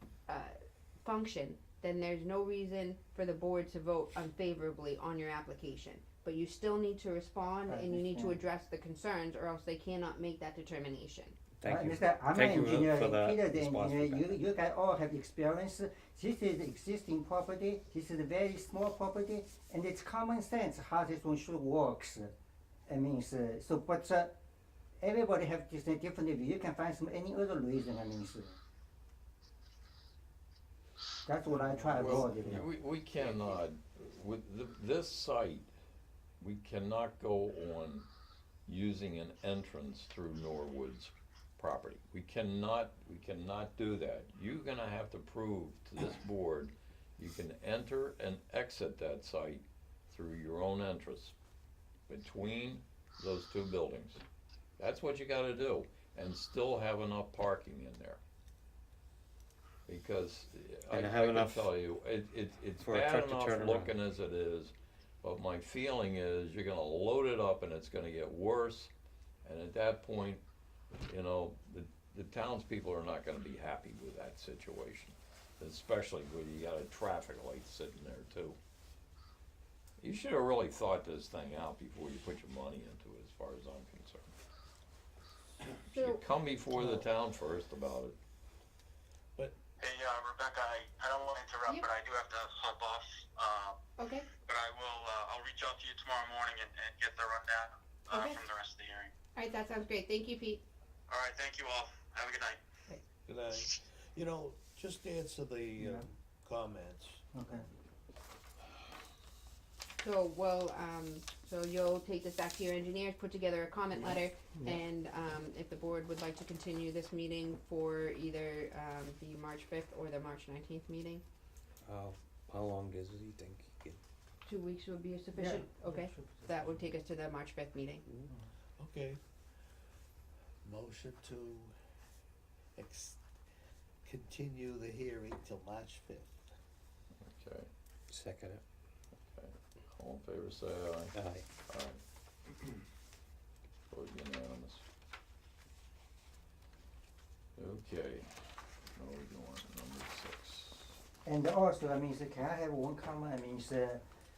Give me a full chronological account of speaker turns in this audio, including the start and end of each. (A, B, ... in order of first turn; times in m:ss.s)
0:00.3-0:11.4 A
0:07.7-0:08.4 B
0:11.6-0:14.4 C
0:11.6-0:22.3 B
0:22.9-0:24.3 B
0:25.0-0:28.6 B
0:31.3-0:32.7 B
0:31.5-0:35.7 D
0:36.4-0:38.1 D
0:38.7-0:51.4 D
0:52.1-0:54.2 D
0:54.8-0:58.2 D
0:59.9-1:08.9 D
1:00.9-1:01.5 C
1:02.8-1:03.9 C
1:09.4-1:10.4 D
1:11.1-1:18.6 D
1:20.0-1:24.3 D
1:25.9-1:28.2 D
1:25.9-1:26.2 A
1:29.8-1:33.8 E
1:34.0-1:34.3 A
1:34.4-1:39.1 E
1:38.1-1:38.4 A
1:39.4-1:40.6 A
1:41.1-1:42.6 E
1:43.3-1:47.3 F
1:45.8-1:46.1 B
1:47.3-1:47.7 B
1:50.0-2:01.2 A
1:54.0-1:54.8 B
2:01.8-2:04.0 C
2:04.4-2:08.1 A
2:05.3-2:06.9 B
2:08.8-2:09.2 F
2:10.6-2:11.7 F
2:12.8-2:13.2 F
2:14.0-2:16.5 F
2:17.2-2:17.7 D
2:18.1-2:18.6 C
2:19.2-2:22.0 D
2:21.1-2:21.4 C
2:23.9-2:24.8 D
2:27.6-2:28.3 D
2:28.9-2:31.0 D
2:31.2-2:34.0 B